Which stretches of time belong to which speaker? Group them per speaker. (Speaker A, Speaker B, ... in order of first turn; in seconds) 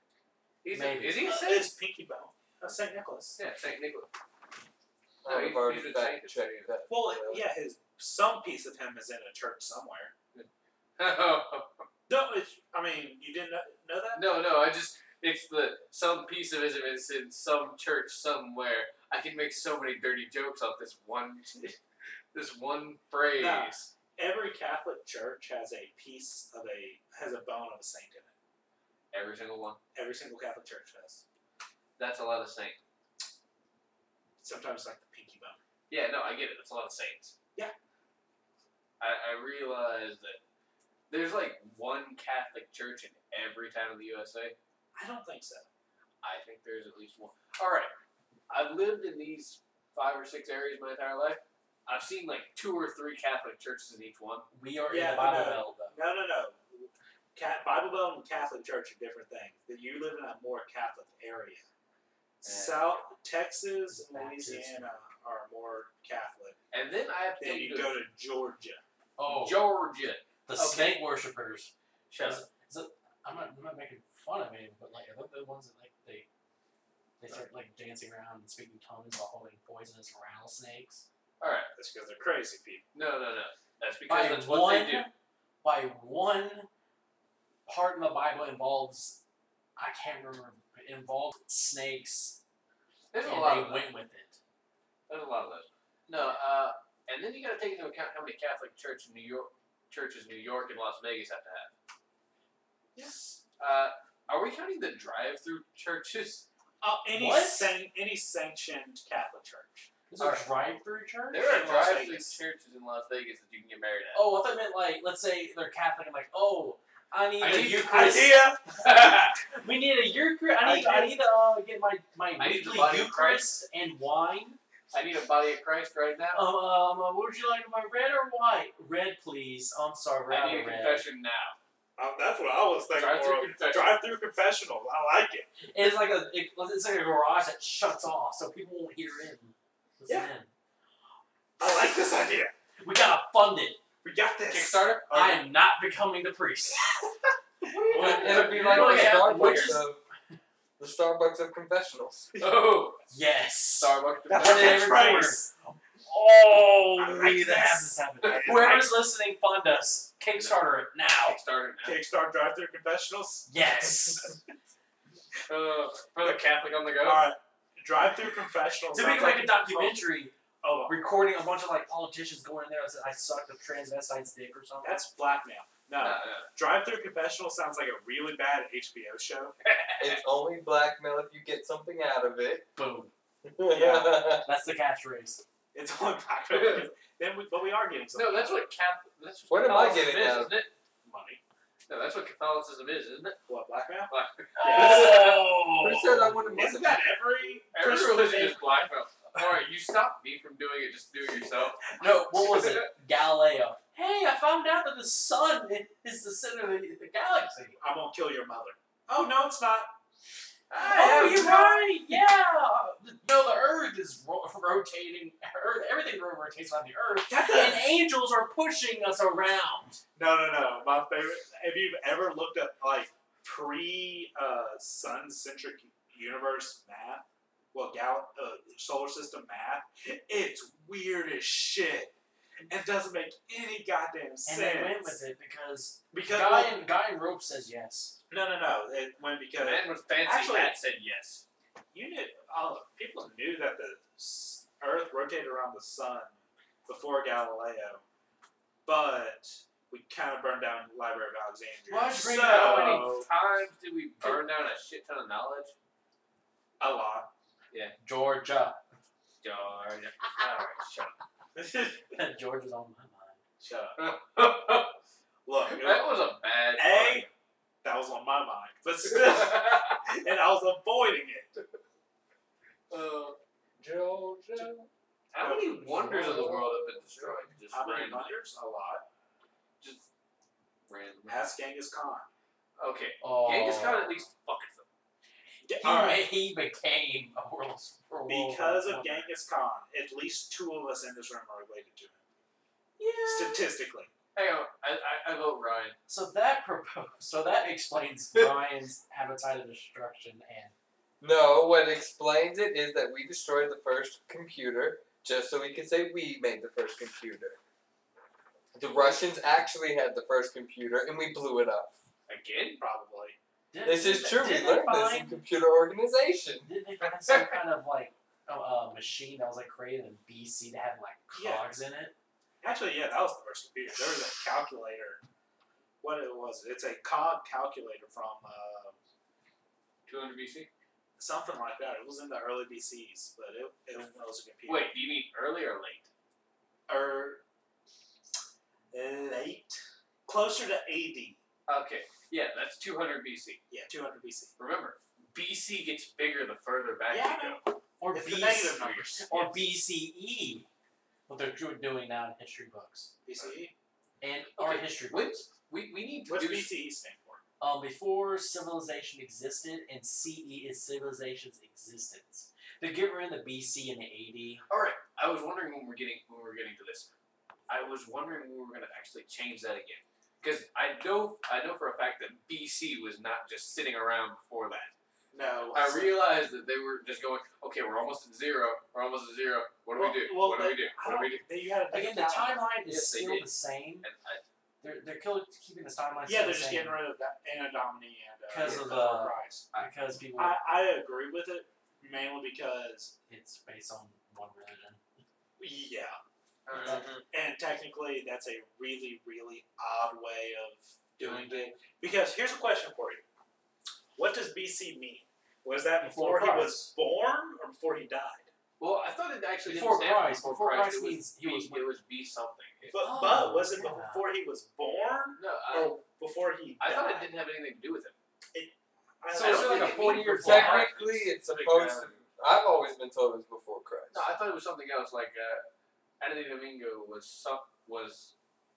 Speaker A: 0.6-1.7, 3.4-4.1, 5.2-6.7, 10.3-11.8, 14.1-21.7, 22.3-23.9, 29.1-29.8, 32.0-32.8, 35.9-37.3, 39.0-40.4, 41.1-44.5, 46.2-47.9, 48.5-54.5, 62.4-62.8, 66.7-68.0, 69.2-71.0, 72.1-72.4, 81.4-81.7, 82.9-85.1, 93.1-93.9, 95.1-101.7, 103.0-106.5, 110.2-110.4, 111.3-114.2, 117.4-118.0, 118.8-119.3, 122.4-123.5, 124.9-126.4, 130.3-131.6, 132.9-134.0, 144.5-145.1, 147.7-149.8, 152.4-153.0, 153.8-154.9, 158.3-158.6, 160.3-160.6, 161.2-162.0, 165.5-167.2, 176.0-176.5, 179.6-180.2, 186.5-186.9, 188.1-190.7, 191.9-193.4, 194.1-195.4, 197.7-202.9, 210.7-211.6, 239.6-241.4, 252.4-255.7, 259.4-261.1, 263.9-264.9, 265.7-267.3, 269.1-270.1, 272.9-278.3, 279.8-280.1, 280.9-281.4, 282.8-284.9, 294.3-295.9, 312.3-312.8, 317.3-317.5, 330.1-330.7, 334.6-336.1, 341.7-343.6, 344.6-347.6, 354.6-356.7, 364.7-367.1, 367.7-374.9, 375.7-381.4, 382.8-383.5, 384.0-384.4, 396.7-397.1, 408.8-413.0, 415.4-415.9, 416.8-418.1, 419.3-422.2, 424.1-425.6, 426.2-428.3
Speaker B: 0.7-1.2, 54.5-56.0, 63.9-64.9, 69.2-69.6, 70.5-76.3, 77.2-81.0, 84.1-85.1, 85.6-86.7, 87.7-89.2, 89.8-92.4, 93.2-94.4, 107.1-107.7, 110.1-111.5, 114.1-124.6, 126.3-131.0, 135.7-140.5, 142.8-143.8, 145.1-146.9, 147.9-149.9, 153.1-155.5, 156.0-161.4, 163.5-164.3, 168.9-170.3, 170.9-175.0, 182.8-183.1, 183.8-185.4, 194.6-196.6, 202.0-207.8, 210.7-220.0, 234.4-238.2, 251.9-253.1, 258.0-258.8, 262.1-263.4, 283.2-284.2, 285.8-289.2, 293.0-293.7, 296.1-300.7, 313.7-315.4, 316.6-322.1, 348.0-350.7, 351.3-353.1, 354.2-355.3, 357.6-364.6, 381.9-384.1, 384.8-387.0, 388.5-390.6, 393.3-395.0, 396.8-397.1, 401.2-401.7, 406.0-406.9, 409.6-411.8, 413.0-414.2, 419.3-420.9
Speaker C: 1.2-3.4, 6.9-10.1, 12.1-14.3, 23.3-28.3, 29.9-31.2, 34.4-35.6, 44.9-45.7, 54.9-61.7, 62.4-66.6, 67.4-68.8, 81.7-82.8, 103.0-103.2, 106.8-109.9, 111.4-112.4, 117.8-118.8, 120.6-121.2, 132.0-135.5, 141.6-142.5, 144.0-145.4, 154.3-155.5, 157.0-159.0, 161.8-164.3, 166.2-170.0, 170.6-170.9, 174.8-179.5, 183.7-184.3, 185.7-188.7, 191.0-191.4, 193.5-195.3, 196.5-198.6, 207.8-209.9, 210.8-211.9, 217.3-217.9, 220.2-232.1, 232.7-235.2, 236.1-236.8, 238.3-240.8, 241.9-248.0, 248.8-253.3, 256.8-257.3, 261.6-262.0, 263.6-264.1, 265.4-266.1, 266.8-267.3, 267.8-271.5, 275.4-276.7, 277.7-279.0, 281.3-282.3, 285.6-286.3, 288.3-292.2, 293.2-294.1, 312.8-313.4, 321.3-321.6, 322.6-325.2, 326.0-329.0, 331.2-334.9, 336.9-337.4, 338.9-341.4, 343.7-344.5, 347.1-349.6, 353.2-353.7, 356.3-357.4, 375.3-376.1, 379.9-382.6, 386.2-389.7, 390.4-393.1, 395.6-396.2, 397.3-403.2, 404.1-408.5, 412.9-417.3, 418.5-420.4
Speaker D: 5.2-7.5, 147.9-150.0, 150.8-152.3, 180.0-182.7, 183.4-184.5, 189.5-190.6, 195.8-197.0, 301.2-307.6, 308.7-311.9, 313.8-316.7, 396.8-397.2, 420.2-424.3